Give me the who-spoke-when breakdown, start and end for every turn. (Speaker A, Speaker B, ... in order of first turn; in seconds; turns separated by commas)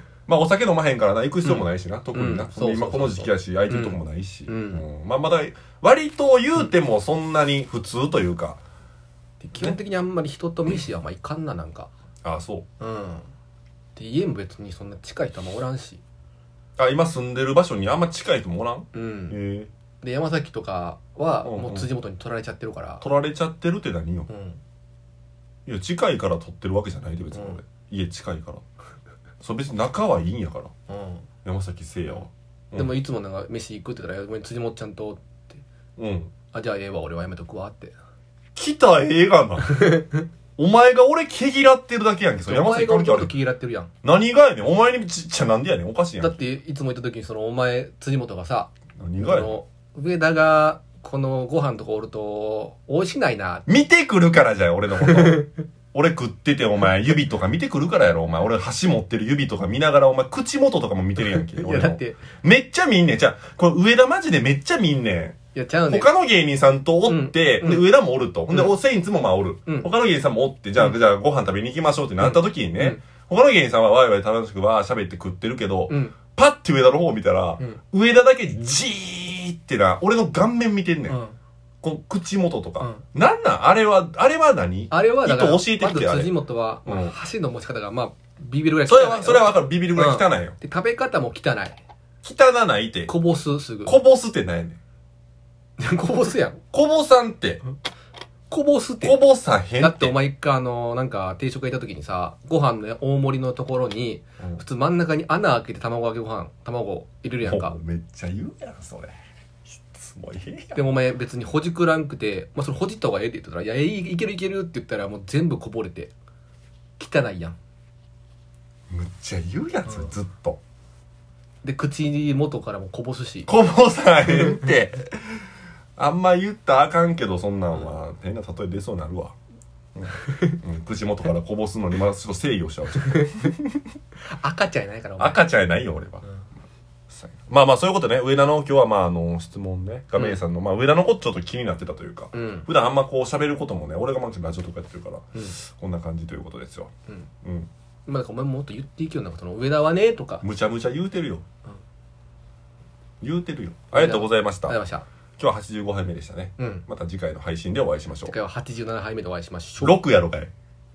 Speaker A: 0.3-8.6, Speaker B: 1.4-4.8, Speaker B: 9.4-11.9, Speaker A: 12.2-12.7, Speaker B: 12.8-13.3, Speaker B: 14.0-16.0, Speaker A: 16.8-19.7, Speaker B: 18.9-19.4, Speaker B: 20.0-23.0, Speaker A: 21.4-21.9, Speaker A: 23.0-24.3, Speaker B: 24.3-24.6, Speaker A: 25.6-28.6, Speaker B: 27.3-27.6, Speaker A: 29.4-30.7, Speaker B: 30.9-31.2, Speaker A: 31.4-32.9, Speaker B: 32.7-35.6, Speaker A: 36.0-36.3, Speaker B: 36.5-37.9, Speaker A: 38.5-40.0, Speaker B: 39.7-40.1, Speaker A: 40.6-43.3, Speaker B: 42.5-43.9, Speaker A: 44.0-46.4, Speaker B: 46.2-53.6, Speaker A: 49.0-49.6, Speaker A: 53.7-65.4, Speaker B: 55.0-55.5, Speaker B: 61.2-62.2, Speaker B: 65.5-66.1, Speaker A: 65.9-81.2, Speaker B: 67.1-67.9, Speaker B: 68.5-68.8, Speaker B: 72.2-73.0, Speaker B: 75.9-76.2, Speaker B: 81.1-81.4, Speaker A: 81.8-87.1, Speaker B: 84.9-91.8, Speaker A: 88.9-90.6, Speaker A: 92.2-93.1, Speaker B: 93.1-94.0, Speaker A: 93.8-94.8, Speaker B: 95.8-96.6, Speaker A: 96.7-97.6, Speaker B: 98.5-99.2, Speaker A: 99.0-100.2, Speaker B: 99.8-107.8, Speaker A: 107.4-109.2, Speaker A: 109.7-110.8, Speaker B: 110.8-116.1, Speaker B: 117.0-117.6, Speaker A: 118.9-120.6, Speaker B: 121.6-123.5, Speaker A: 123.5-125.4, Speaker A: 126.0-129.4, Speaker A: 129.9-133.8, Speaker B: 134.4-135.4, Speaker A: 135.2-136.2, Speaker A: 137.1-146.9, Speaker B: 142.3-142.7, Speaker A: 147.4-147.7, Speaker B: 148.1-150.4, Speaker A: 150.4-151.4, Speaker A: 153.2-154.8, Speaker B: 153.9-155.1, Speaker A: 155.4-158.3, Speaker B: 156.6-156.9, Speaker B: 158.2-160.0, Speaker A: 159.8-160.5